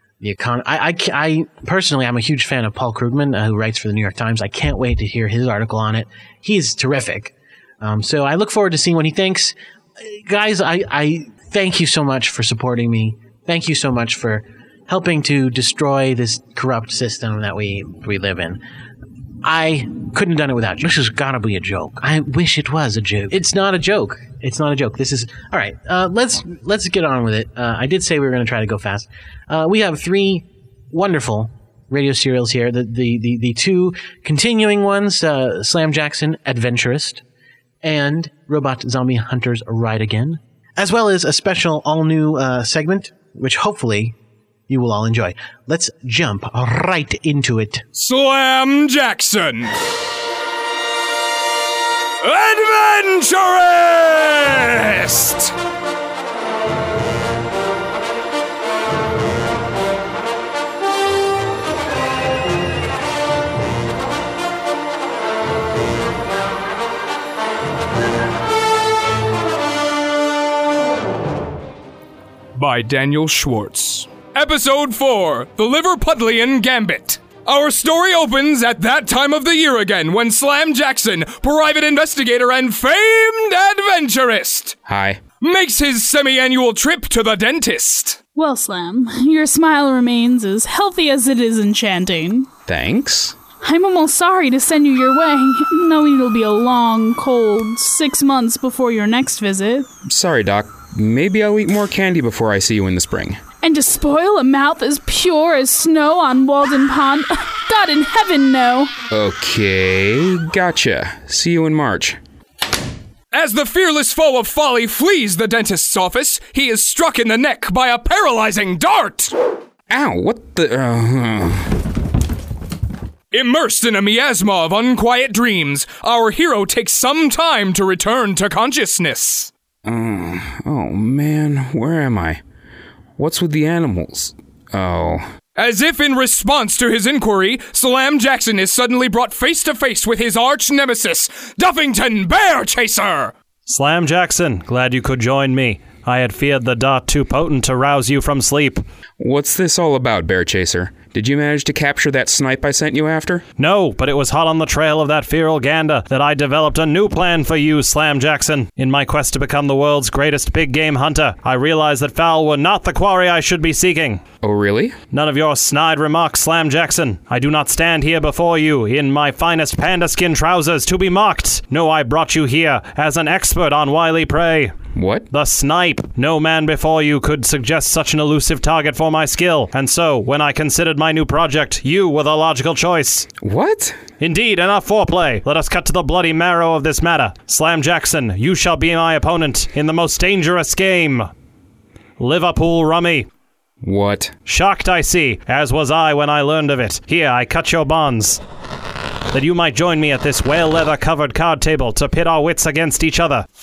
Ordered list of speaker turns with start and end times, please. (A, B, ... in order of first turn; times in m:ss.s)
0:00.2-0:18.6 A
0:19.4-0:37.2 A
0:37.8-0:44.2 A
0:44.7-0:47.8 A
0:48.0-0:49.8 B
0:52.2-0:55.5 B
1:12.6-1:24.8 B
1:24.8-1:25.2 C
1:25.4-1:28.2 B
1:28.4-1:32.5 D
1:32.7-1:33.4 C
1:33.6-1:39.9 D
1:40.1-1:43.4 C
1:43.6-1:48.9 D
1:49.1-1:52.2 C
1:53.3-1:59.3 B
1:59.9-2:01.8 C
2:03.3-2:09.5 B
2:09.8-2:12.4 C
2:13.2-2:15.3 C
2:15.6-2:23.3 B
2:23.7-2:28.8 E
2:29.2-2:33.4 C
2:33.6-2:44.2 E
2:44.4-2:45.0 C
2:45.1-2:54.8 E
2:54.9-2:55.3 C
2:55.3-3:03.3 E
3:03.4-3:04.0 C
3:04.2-3:11.3 E
3:12.2-3:13.3 E
3:13.8-3:14.3 C
3:14.5-3:18.4 E
3:19.3-3:23.5 E